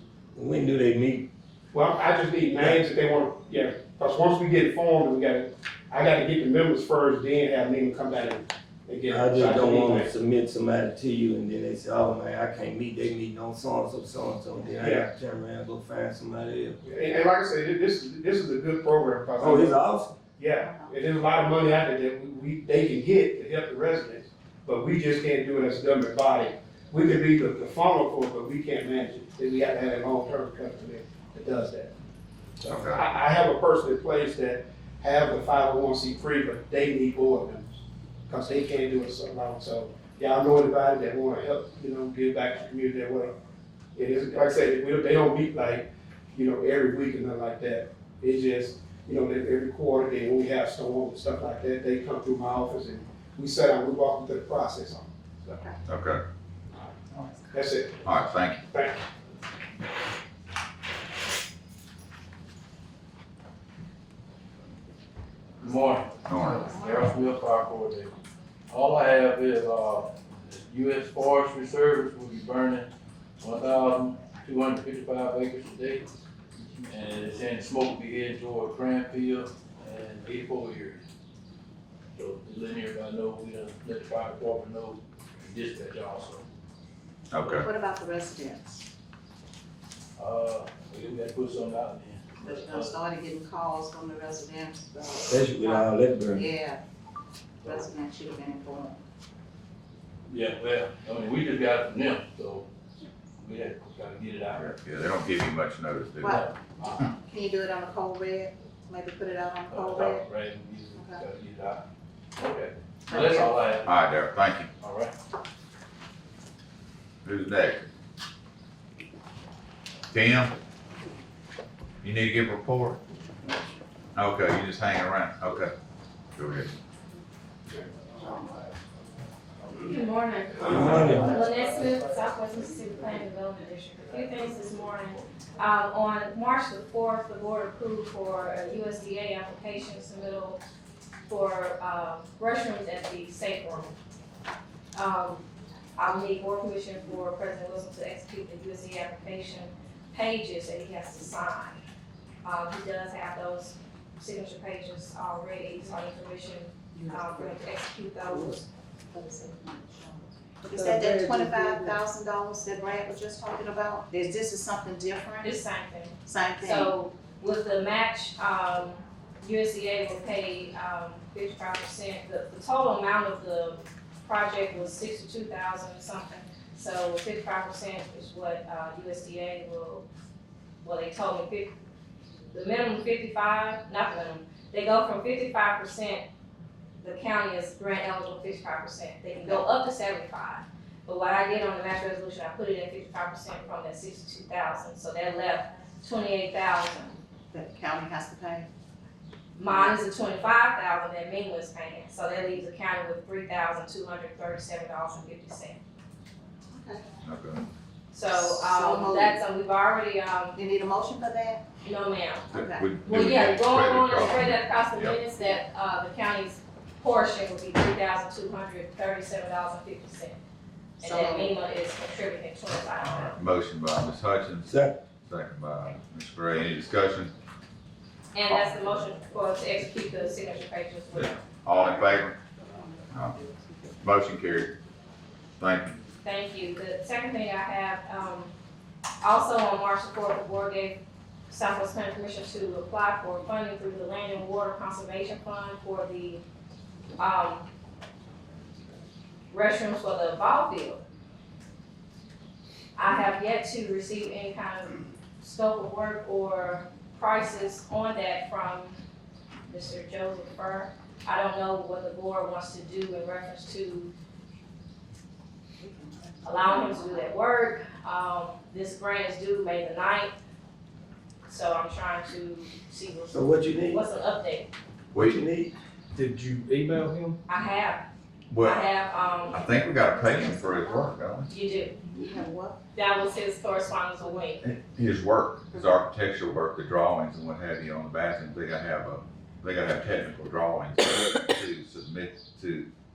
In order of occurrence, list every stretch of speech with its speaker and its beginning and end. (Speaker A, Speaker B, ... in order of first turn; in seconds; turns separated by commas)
Speaker A: 0.3-1.3, Speaker B: 1.7-10.1, Speaker A: 9.1-16.8, Speaker B: 14.8-15.1, Speaker B: 16.8-19.8, Speaker A: 19.4-20.2, Speaker B: 20.4-31.9, Speaker C: 20.6-20.9, Speaker A: 32.6-32.9, Speaker D: 32.7-33.0, Speaker B: 32.9-43.3, Speaker B: 44.0-55.7, Speaker D: 55.9-56.2, Speaker B: 57.5-59.0, Speaker D: 58.0-58.6, Speaker E: 65.6-68.1, Speaker D: 66.2-66.7, Speaker E: 68.7-72.9, Speaker E: 73.4-76.1, Speaker E: 76.8-81.0, Speaker E: 82.2-86.4, Speaker D: 87.3-87.7, Speaker C: 87.4-88.9, Speaker E: 90.2-92.9, Speaker C: 92.4-96.8, Speaker A: 95.3-96.5, Speaker C: 97.6-99.0, Speaker E: 97.6-97.9, Speaker E: 100.3-102.7, Speaker E: 103.4-104.7, Speaker D: 104.5-106.4, Speaker C: 106.2-110.2, Speaker E: 106.2-107.1, Speaker E: 109.7-111.8, Speaker C: 111.0-111.2, Speaker E: 112.4-114.0, Speaker C: 113.1-113.8, Speaker D: 113.8-114.7, Speaker E: 114.8-115.1, Speaker D: 117.2-117.8, Speaker D: 120.1-120.5, Speaker D: 122.0-123.0, Speaker D: 124.2-125.7, Speaker D: 126.3-126.8, Speaker F: 129.8-140.6, Speaker A: 130.6-131.4, Speaker F: 141.3-143.9, Speaker F: 144.9-145.5, Speaker F: 146.0-151.8, Speaker F: 152.4-158.7, Speaker C: 156.9-157.6, Speaker C: 159.1-165.5, Speaker G: 160.7-162.0, Speaker F: 165.4-180.1, Speaker C: 166.2-166.9, Speaker F: 180.8-181.7, Speaker F: 182.5-186.2, Speaker F: 187.0-197.2, Speaker C: 197.5-198.7, Speaker F: 199.6-205.8, Speaker C: 199.7-200.0, Speaker C: 206.7-207.1, Speaker D: 207.2-207.7, Speaker F: 208.1-210.6, Speaker C: 208.3-209.4, Speaker C: 210.6-211.6, Speaker F: 211.8-220.4, Speaker C: 212.5-212.9, Speaker D: 212.5-215.2, Speaker F: 221.0-223.4, Speaker C: 221.0-221.6, Speaker D: 223.0-227.3, Speaker A: 224.7-225.0, Speaker F: 228.3-231.5, Speaker D: 228.5-228.7, Speaker D: 231.2-232.4, Speaker C: 231.7-234.0, Speaker D: 233.1-233.4, Speaker D: 234.0-234.7, Speaker D: 235.6-236.0, Speaker F: 236.2-238.5, Speaker F: 239.2-246.4, Speaker F: 247.2-247.7, Speaker F: 249.5-251.0, Speaker F: 253.0-259.0, Speaker F: 259.7-264.1, Speaker C: 265.8-267.3, Speaker F: 266.4-270.3, Speaker F: 271.5-274.7, Speaker A: 273.3-274.0, Speaker D: 275.1-275.4, Speaker A: 275.1-275.7, Speaker G: 276.1-277.4, Speaker F: 277.5-278.1, Speaker D: 278.5-278.8, Speaker F: 278.6-279.7, Speaker D: 279.5-281.5, Speaker F: 281.5-282.0, Speaker C: 282.1-282.8, Speaker F: 282.9-284.6, Speaker D: 284.6-292.9